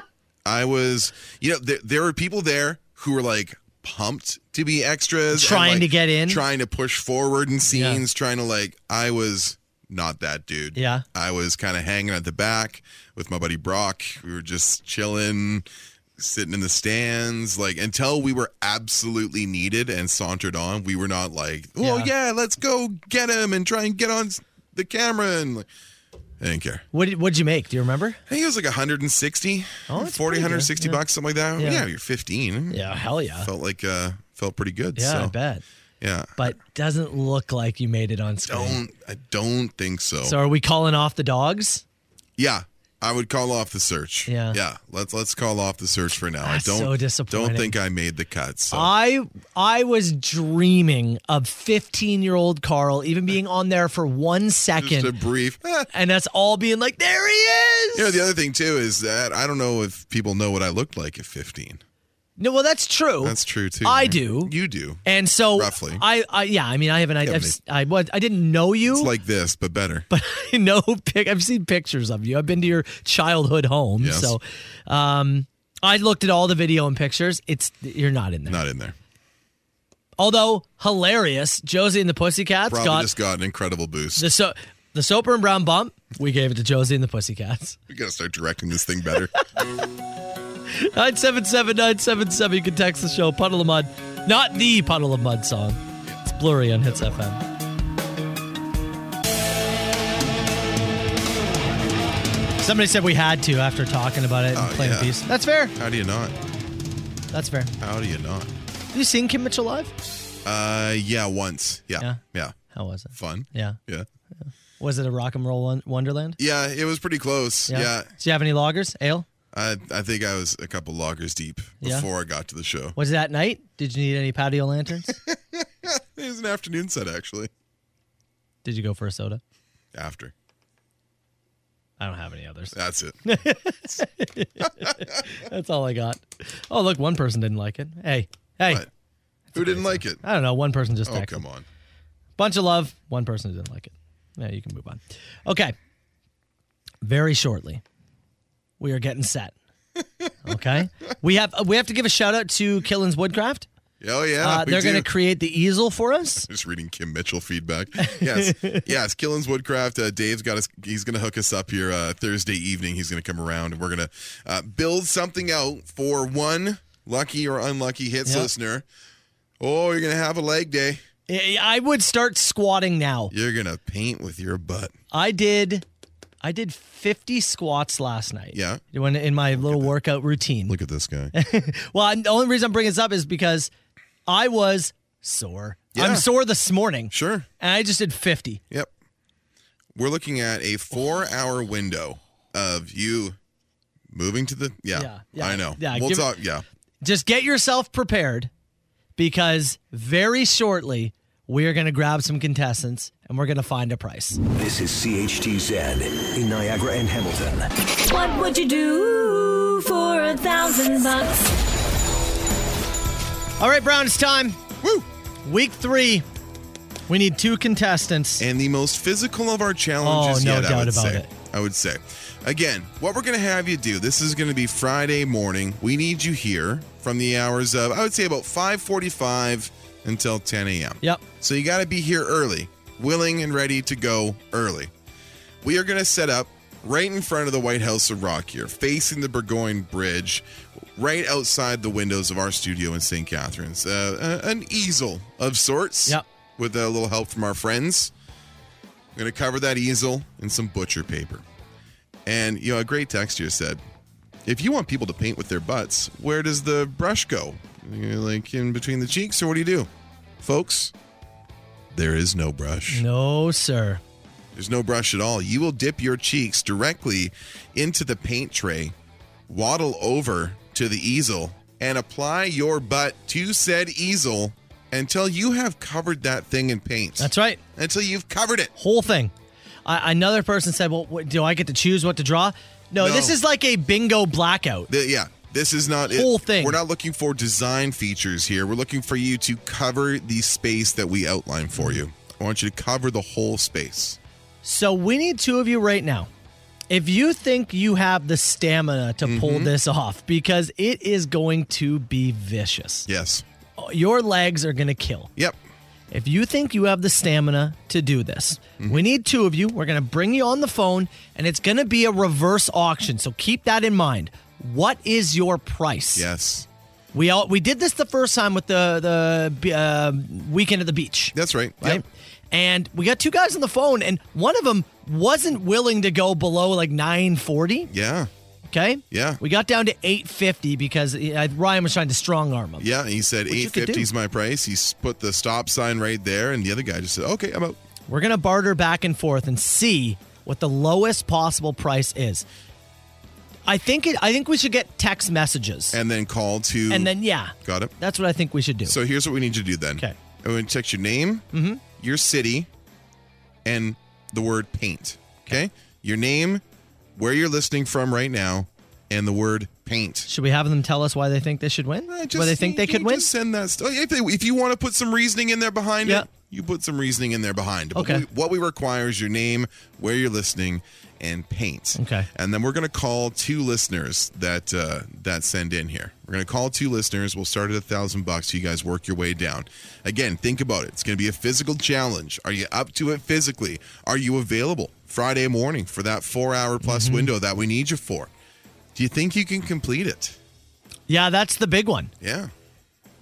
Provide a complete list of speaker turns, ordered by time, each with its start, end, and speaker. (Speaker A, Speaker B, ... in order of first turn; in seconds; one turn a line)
Speaker A: 0.5-25.7
Speaker B: 5.3-6.4
Speaker B: 7.7-8.0
Speaker B: 10.8-11.1
Speaker B: 21.8-22.1
Speaker A: 26.4-26.9
Speaker B: 26.9-28.2
Speaker A: 28.3-35.4
Speaker B: 29.9-31.0
Speaker B: 31.6-31.9
Speaker B: 32.7-33.5
Speaker B: 35.0-35.6
Speaker A: 36.0-36.5
Speaker B: 36.4-38.8
Speaker A: 38.5-40.4
Speaker B: 40.2-41.8
Speaker A: 42.4-48.9
Speaker B: 44.3-44.6
Speaker B: 46.4-47.8
Speaker B: 48.7-55.1
Speaker A: 54.8-55.9
Speaker B: 55.9-58.2
Speaker A: 58.0-61.8
Speaker B: 62.4-64.5
Speaker A: 63.2-66.0
Speaker B: 65.0-69.1
Speaker A: 67.2-67.6
Speaker A: 68.9-70.1
Speaker B: 70.1-78.6
Speaker A: 74.0-74.4
Speaker A: 78.5-79.0
Speaker B: 80.2-83.1
Speaker A: 82.7-84.3
Speaker B: 84.2-87.8
Speaker A: 87.9-89.3
Speaker B: 90.7-95.8
Speaker A: 96.0-96.3
Speaker B: 96.4-97.4
Speaker A: 96.9-97.2
Speaker B: 102.6-105.7
Speaker A: 104.5-105.2
Speaker A: 105.8-106.4
Speaker B: 107.3-107.7
Speaker A: 107.8-108.5
Speaker B: 108.9-109.9
Speaker A: 110.5-112.6
Speaker B: 112.7-113.8
Speaker A: 113.1-114.1
Speaker B: 114.4-116.4
Speaker A: 116.4-118.1
Speaker B: 117.7-119.3
Speaker A: 119.5-123.0
Speaker B: 121.8-122.1
Speaker B: 123.0-125.2
Speaker A: 125.1-127.5
Speaker B: 128.6-129.4
Speaker A: 129.9-130.3
Speaker B: 132.0-138.8
Speaker A: 132.7-133.2
Speaker B: 139.5-141.4
Speaker A: 139.5-140.2
Speaker A: 141.1-141.7
Speaker B: 142.4-145.8
Speaker B: 147.0-147.8
Speaker B: 148.8-149.6
Speaker A: 150.0-150.3
Speaker B: 150.4-153.7
Speaker A: 154.0-155.1
Speaker B: 154.4-156.5
Speaker A: 156.4-168.8
Speaker B: 158.0-158.8
Speaker A: 169.6-171.0
Speaker B: 171.3-173.3
Speaker A: 173.3-174.9
Speaker B: 175.1-175.9
Speaker B: 176.4-180.8
Speaker A: 178.5-178.8
Speaker A: 179.5-179.9
Speaker A: 180.7-181.3
Speaker B: 181.3-183.7
Speaker B: 184.3-188.6
Speaker A: 185.9-186.3
Speaker A: 187.1-187.5
Speaker A: 189.9-193.4
Speaker A: 194.1-196.6
Speaker B: 194.9-196.3
Speaker B: 197.0-198.5
Speaker B: 199.2-204.4
Speaker C: 204.5-207.7
Speaker D: 208.0-211.6
Speaker B: 213.6-214.6
Speaker A: 214.8-215.1
Speaker B: 215.4-216.2
Speaker B: 217.1-218.4
Speaker A: 218.4-234.9
Speaker B: 220.0-221.3
Speaker A: 235.6-248.1
Speaker A: 249.2-251.4
Speaker A: 252.3-253.8
Speaker A: 254.4-259.9
Speaker A: 260.4-260.9
Speaker A: 261.9-263.0
Speaker B: 262.9-264.0
Speaker A: 264.5-268.9
Speaker A: 269.5-278.7
Speaker B: 277.2-277.6
Speaker B: 278.8-279.3
Speaker B: 279.9-284.9
Speaker A: 283.0-283.4
Speaker A: 284.9-294.2
Speaker B: 286.1-286.8
Speaker B: 294.6-296.3
Speaker B: 296.9-303.1
Speaker A: 299.2-299.7
Speaker A: 303.1-303.4
Speaker B: 303.8-305.3
Speaker B: 306.1-316.2
Speaker A: 316.1-316.7
Speaker B: 317.1-327.9
Speaker A: 321.3-322.0
Speaker A: 327.9-328.3
Speaker B: 328.7-332.9
Speaker A: 329.1-329.4
Speaker A: 332.8-337.8
Speaker B: 333.5-334.1
Speaker B: 338.1-342.4
Speaker B: 343.7-346.0
Speaker A: 345.9-347.9
Speaker B: 346.9-349.0
Speaker A: 348.9-351.5
Speaker B: 351.5-351.8
Speaker A: 352.0-352.7
Speaker A: 353.6-356.6
Speaker A: 357.2-360.3
Speaker B: 360.3-363.3
Speaker A: 362.1-388.3
Speaker B: 367.9-368.2
Speaker B: 372.0-372.3
Speaker B: 386.8-387.3
Speaker A: 388.9-390.4
Speaker B: 391.1-392.1
Speaker A: 392.2-392.5